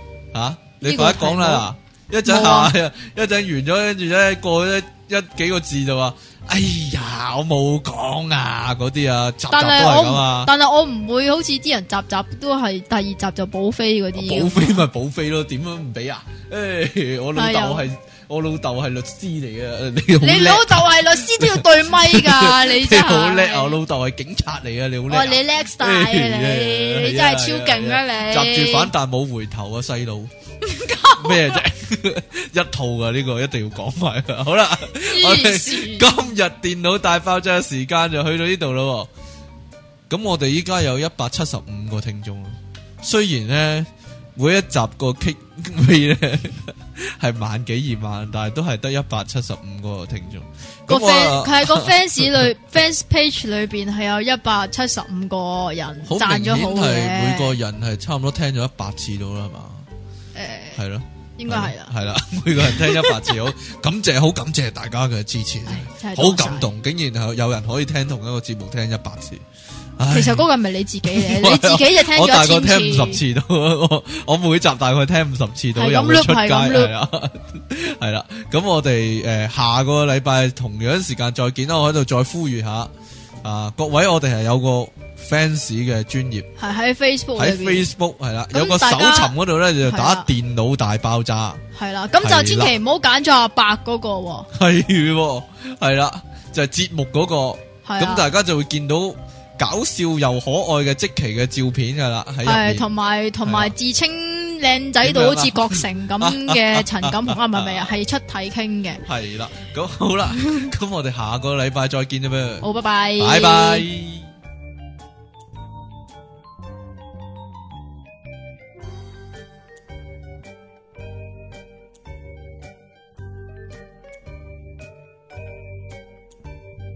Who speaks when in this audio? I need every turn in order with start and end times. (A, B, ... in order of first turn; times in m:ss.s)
0:00.3-0:10.5 A
0:00.8-0:01.7 B
0:02.2-0:02.7 B
0:09.5-0:14.8 B
0:14.1-0:30.3 A
0:17.3-0:17.9 B
0:20.2-0:23.8 B
0:25.1-0:28.9 B
0:30.6-0:31.6 B
0:31.2-0:39.1 A
0:35.0-0:36.1 B
0:40.1-0:52.5 A
0:50.9-0:57.6 B
0:56.0-0:59.9 A
1:00.3-1:00.8 B
1:00.7-1:09.4 A
1:01.4-1:01.9 B
1:02.6-1:03.5 B
1:05.6-1:06.7 B
1:10.0-1:10.5 A
1:10.1-1:13.2 B
1:11.0-1:22.9 A
1:15.7-1:16.9 B
1:23.4-1:26.5 A
1:26.6-1:27.9 B
1:27.4-1:31.6 A
1:28.5-1:30.3 B
1:31.7-1:34.5 B
1:32.2-1:32.7 A
1:34.5-1:42.8 A
1:37.8-1:38.3 B
1:42.4-1:49.0 B
1:43.4-1:43.7 A
1:45.0-1:47.9 A
1:49.0-1:52.7 A
1:50.4-1:50.7 B
1:52.6-1:53.9 B
1:53.2-1:54.3 A